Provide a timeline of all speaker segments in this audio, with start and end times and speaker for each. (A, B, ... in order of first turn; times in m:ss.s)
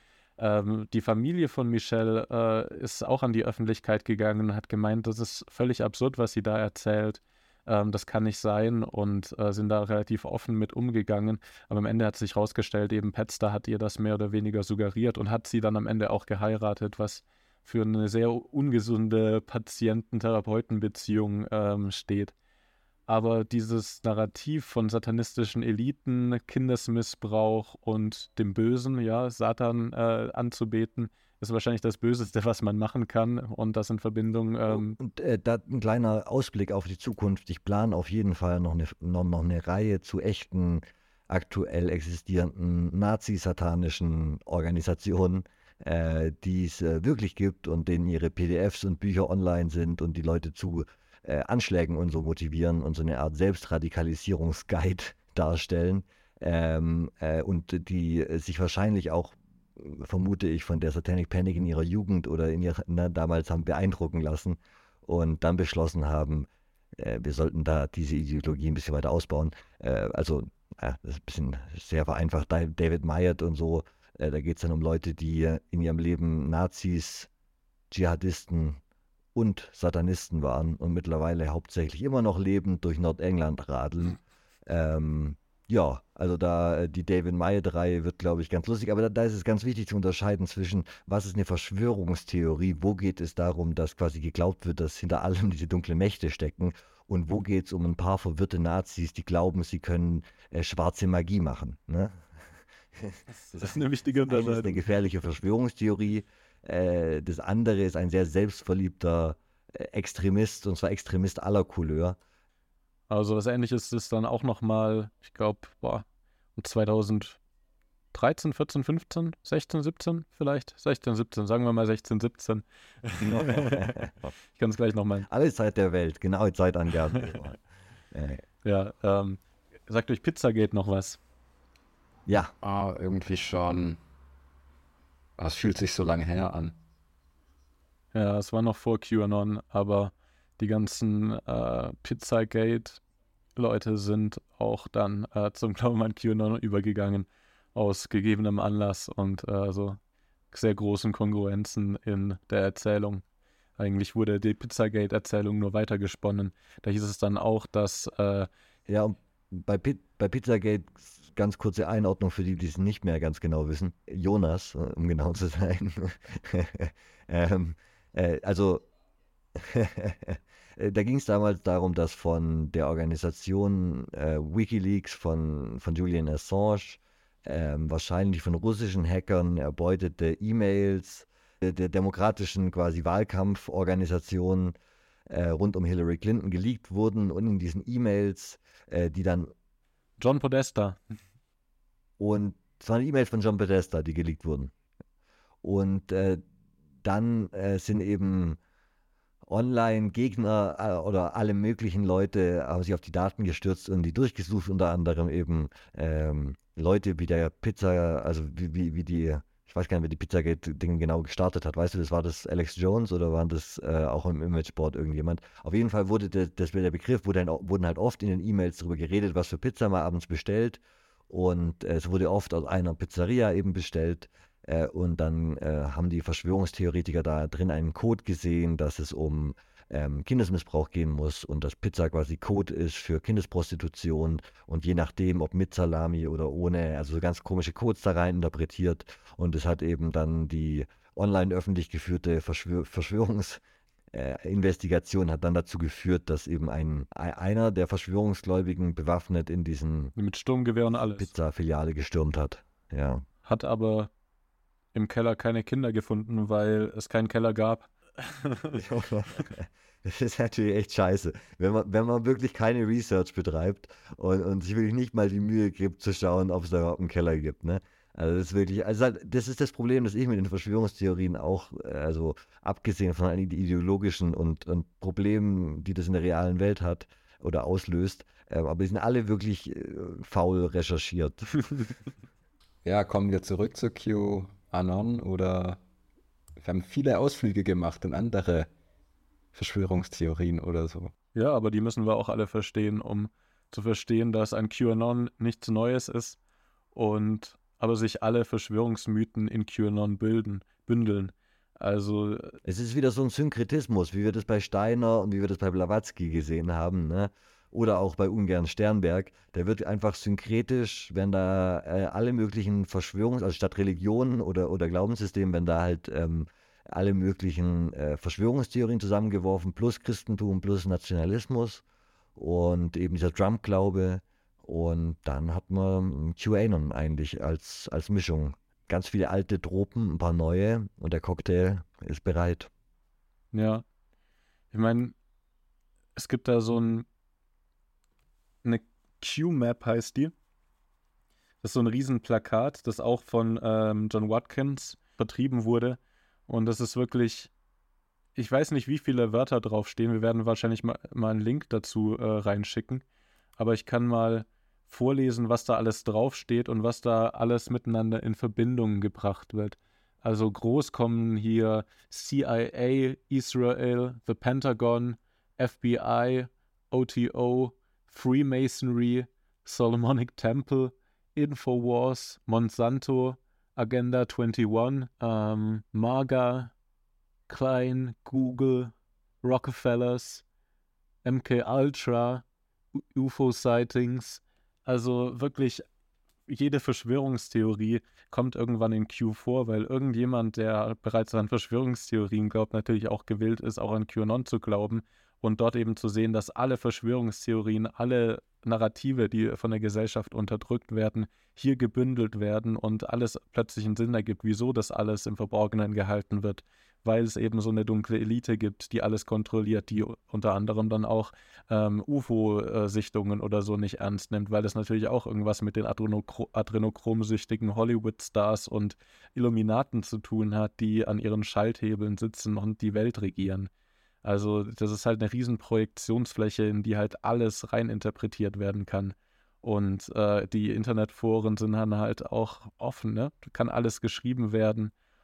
0:00.4-0:22.3 A
0:23.1-0:35.0 A
0:34.7-1:17.3 B
1:17.9-1:18.8 B
1:19.3-1:42.1 B
1:42.9-1:52.2 B
1:43.3-1:44.8 A
1:53.1-1:57.4 A
1:58.1-2:05.3 A
2:03.2-2:04.3 B
2:05.3-2:07.6 B
2:08.1-2:08.4 B
2:08.6-2:11.2 A
2:12.3-2:12.5 B
2:12.6-2:14.0 C
2:15.4-2:16.7 C
2:18.1-2:23.0 A
2:23.6-2:30.0 A
2:30.5-2:33.2 A
2:33.8-2:38.5 A
2:38.9-2:48.8 B
2:49.5-3:04.7 B
3:05.3-3:09.5 B
3:10.2-3:11.0 A
3:12.2-3:14.7 B
3:15.6-3:16.4 B
3:17.0-3:18.6 B
3:19.5-4:03.6 B
4:04.1-4:10.1 B
4:10.2-4:11.3 A
4:11.2-4:13.2 B
4:13.4-4:14.1 A
4:14.9-4:18.8 A
4:18.7-4:41.9 B
4:42.8-4:45.8 C
4:46.6-4:48.7 C
4:49.5-4:51.1 C
4:51.3-4:56.4 A
4:56.9-5:02.6 A
5:02.6-5:21.8 B
5:22.4-5:32.7 B
5:33.5-5:33.8 A
5:34.7-5:35.1 A
5:36.2-5:37.0 A
5:38.6-5:40.3 A
5:41.6-5:47.5 A
5:48.4-5:53.0 A
5:53.6-6:16.7 A
6:17.5-6:20.4 A
6:21.2-6:22.4 A
6:23.0-6:25.8 A
6:26.5-7:03.7 A
7:04.2-7:14.9 A